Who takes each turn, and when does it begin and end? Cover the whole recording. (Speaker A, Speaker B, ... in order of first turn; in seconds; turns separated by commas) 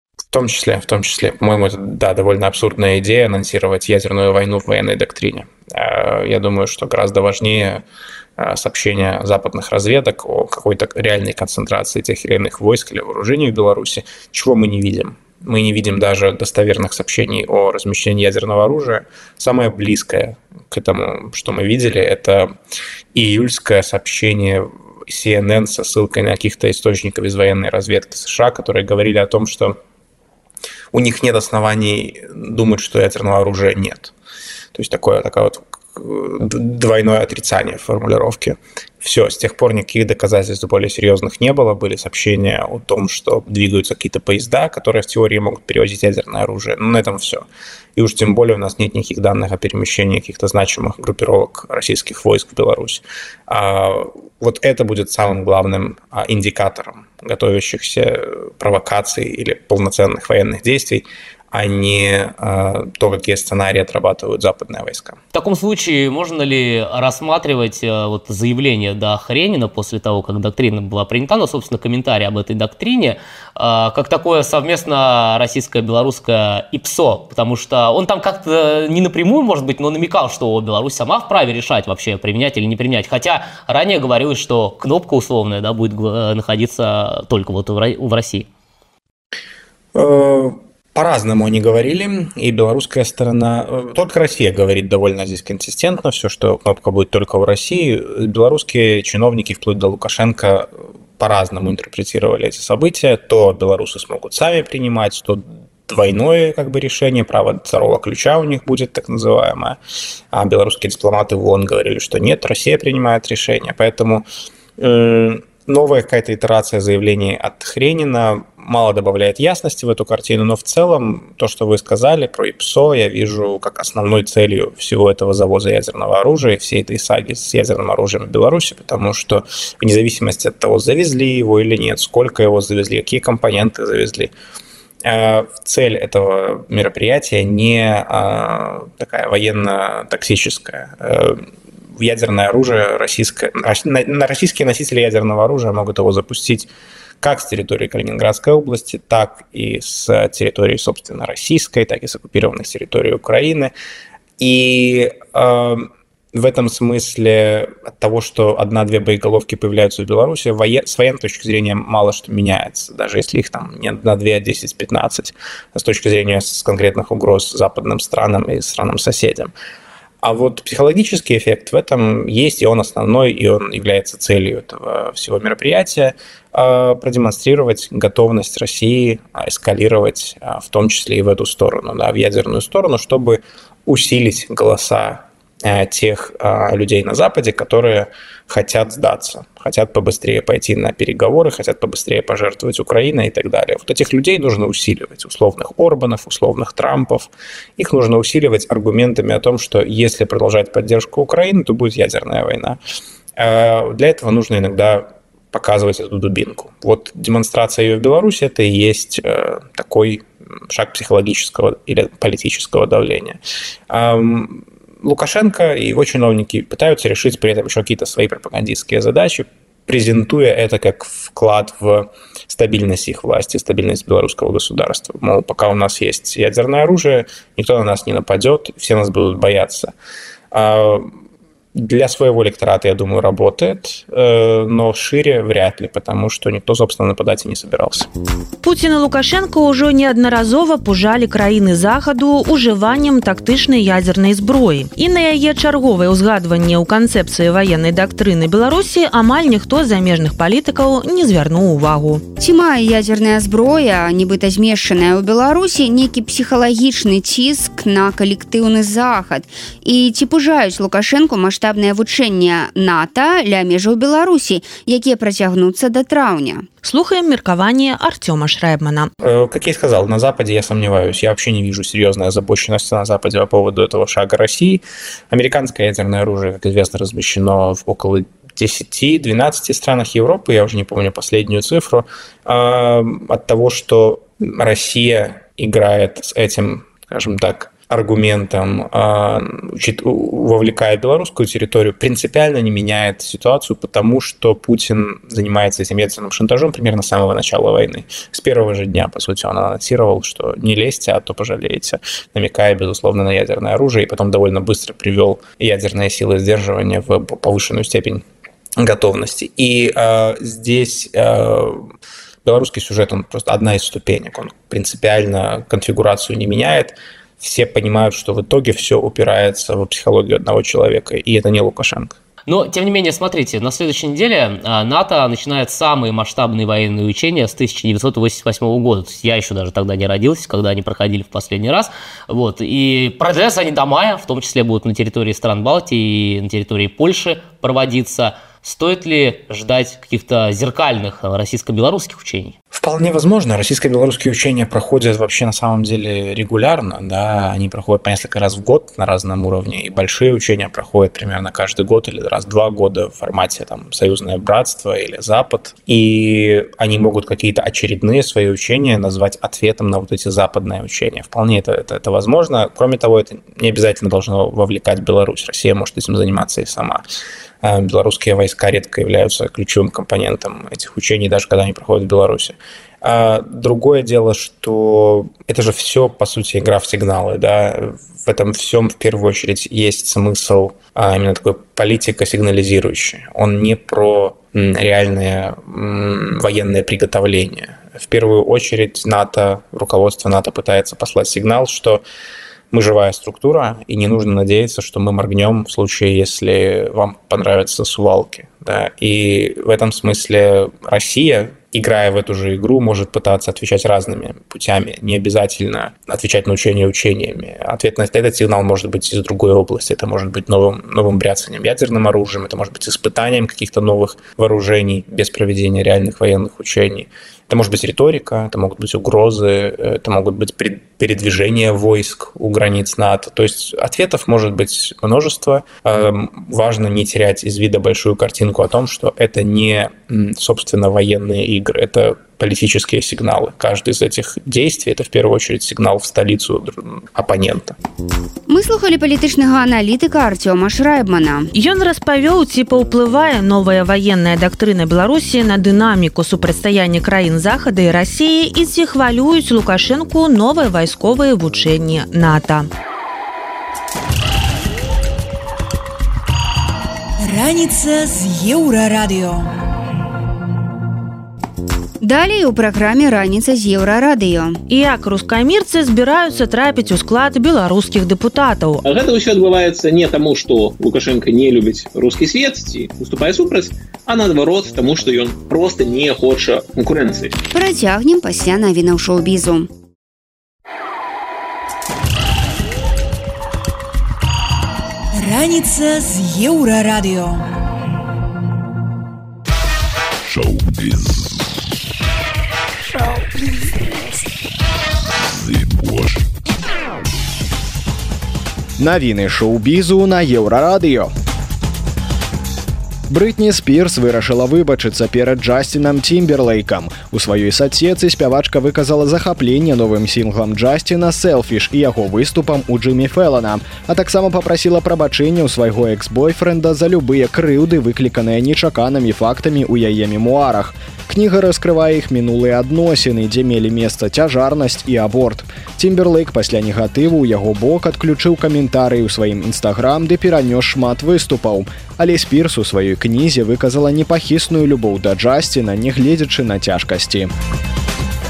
Speaker A: 0.3-7.8, Speaker A: 8.4-22.5, Speaker A: 23.1-29.8, Speaker A: 30.9-34.1, Speaker A: 34.7-65.2, Speaker B: 65.3-88.5, Speaker A: 89.9-109.8, Speaker A: 110.3-114.3, Speaker A: 114.8-134.3, Speaker A: 135.0-141.4, Speaker A: 141.9-146.7, Speaker A: 147.2-153.7, Speaker A: 154.4-169.5, Speaker A: 170.2-202.8, Speaker A: 203.3-229.9, Speaker A: 230.5-231.1, Speaker A: 231.7-238.1, Speaker C: 238.6-252.2, Speaker D: 252.4-266.6, Speaker C: 266.8-269.1, Speaker A: 269.2-308.2, Speaker A: 308.8-311.9, Speaker A: 312.4-322.2, Speaker B: 322.4-342.6, Speaker A: 342.7-367.0, Speaker A: 367.6-392.0, Speaker A: 392.7-437.8, Speaker D: 438.5-441.5, Speaker C: 441.5-452.7, Speaker E: 457.2-459.5, Speaker D: 462.0-464.6, Speaker C: 464.7-468.8, Speaker F: 468.8-477.3, Speaker D: 477.5-479.7, Speaker E: 485.1-487.4, Speaker G: 490.3-491.4, Speaker G: 492.9-494.0, Speaker G: 495.2-496.3, Speaker H: 498.8-501.1, Speaker H: 503.1-537.3